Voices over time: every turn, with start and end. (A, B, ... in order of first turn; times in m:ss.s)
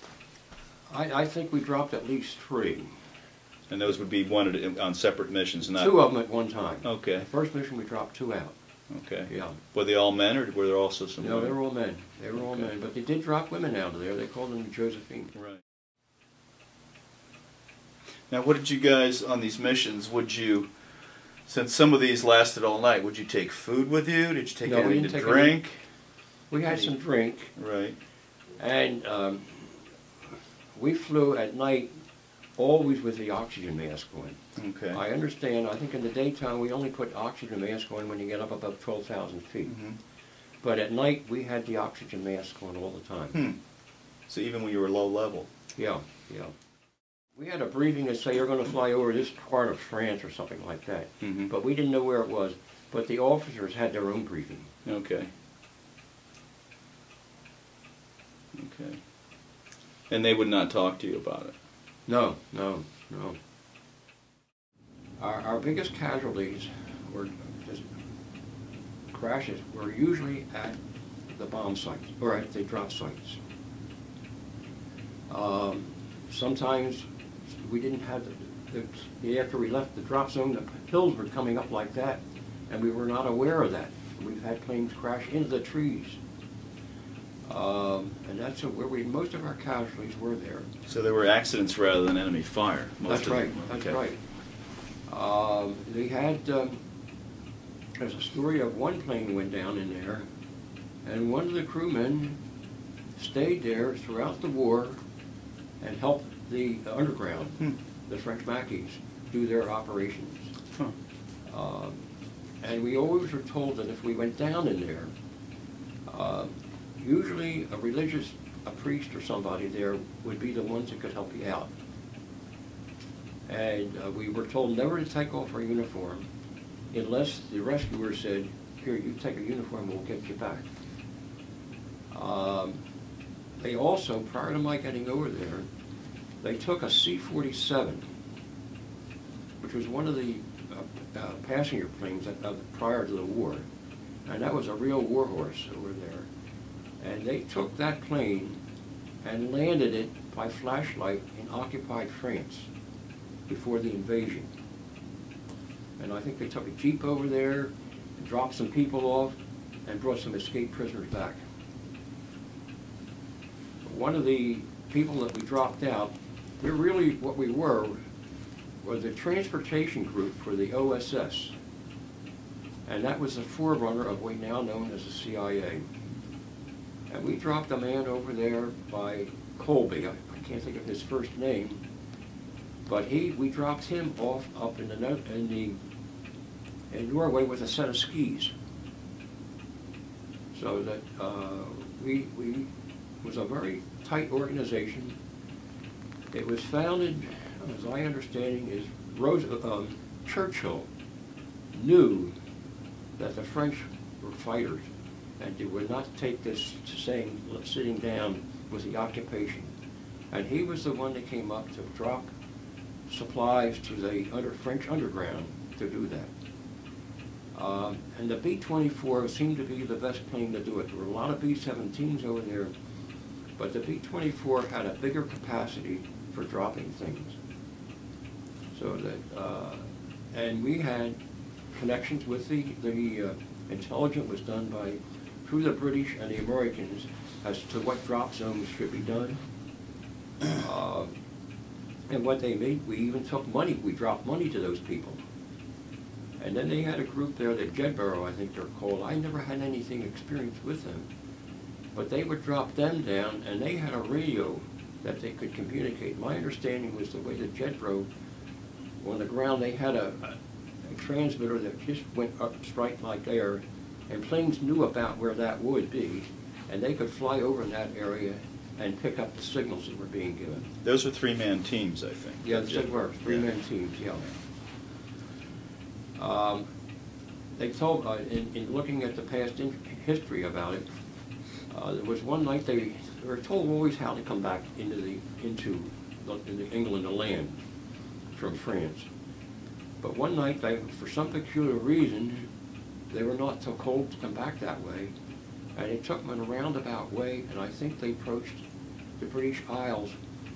0:00.9-0:03.0 A
0:03.7-0:05.9 B
0:05.8-0:08.5 A
0:06.8-0:07.3 B
0:08.9-0:11.6 B
0:09.3-0:09.6 A
0:11.2-0:15.3 A
0:15.4-0:15.6 B
0:18.3-0:20.7 B
0:21.5-0:25.8 B
0:24.6-0:25.6 A
0:26.5-0:27.5 A
0:27.6-0:28.0 B
0:28.6-0:29.7 A
0:30.8-0:31.9 A
0:32.6-0:34.4 A
0:34.6-0:35.0 B
0:34.9-0:39.8 A
0:39.7-0:40.0 B
0:40.6-0:43.4 A
0:44.3-0:45.5 B
0:45.8-0:46.5 A
0:47.4-0:54.7 A
0:51.2-0:51.5 B
0:54.8-0:55.3 B
0:58.5-0:59.0 B
1:00.1-1:01.6 B
1:02.1-1:03.4 A
1:05.2-1:07.9 A
1:09.1-1:10.8 A
1:11.3-1:13.4 A
1:15.3-1:26.2 A
1:27.5-1:30.7 A
1:30.9-1:34.0 B
1:33.1-1:34.2 A
1:35.1-1:36.8 A
1:38.0-1:40.2 A
1:41.1-1:42.4 A
1:43.2-1:45.0 A
1:45.8-1:50.5 A
1:51.5-1:52.0 A
1:52.6-1:55.1 A
1:56.1-1:56.5 A
1:57.0-2:01.7 A
2:03.5-2:06.3 A
2:06.9-2:10.7 A
2:12.1-2:12.8 A
2:13.6-2:15.7 A
2:16.4-2:18.0 A
2:19.6-2:23.7 A
2:24.3-2:26.3 A
2:27.0-2:28.6 A
2:29.2-2:32.7 A
2:33.5-2:34.5 A
2:36.0-2:41.4 A
2:43.8-2:48.0 A
2:48.8-2:51.5 A
2:52.9-2:55.9 A
2:57.1-3:01.8 A
3:02.9-3:05.8 A
3:06.9-3:08.5 A
3:10.5-3:12.7 A
3:13.2-3:15.2 A
3:16.3-3:20.9 A
3:21.7-3:22.3 A
3:23.2-3:24.9 A
3:25.4-3:29.7 A
3:30.3-3:32.3 A
3:33.1-3:36.3 A
3:37.6-3:42.7 A
3:43.6-3:47.4 A
3:48.7-3:51.2 A
3:51.7-3:59.4 A
4:00.5-4:01.1 A
4:02.1-4:05.2 A
4:06.4-4:11.1 A
4:12.0-4:18.1 A
4:19.0-4:30.8 A
4:30.8-4:33.5 B
4:32.4-4:34.2 A
4:36.2-4:36.6 A
4:37.6-4:40.9 A
4:41.7-4:47.6 A
4:48.4-4:49.1 A
4:50.0-4:52.5 A
4:53.1-4:55.1 A
4:55.8-4:58.6 A
4:59.2-5:00.1 A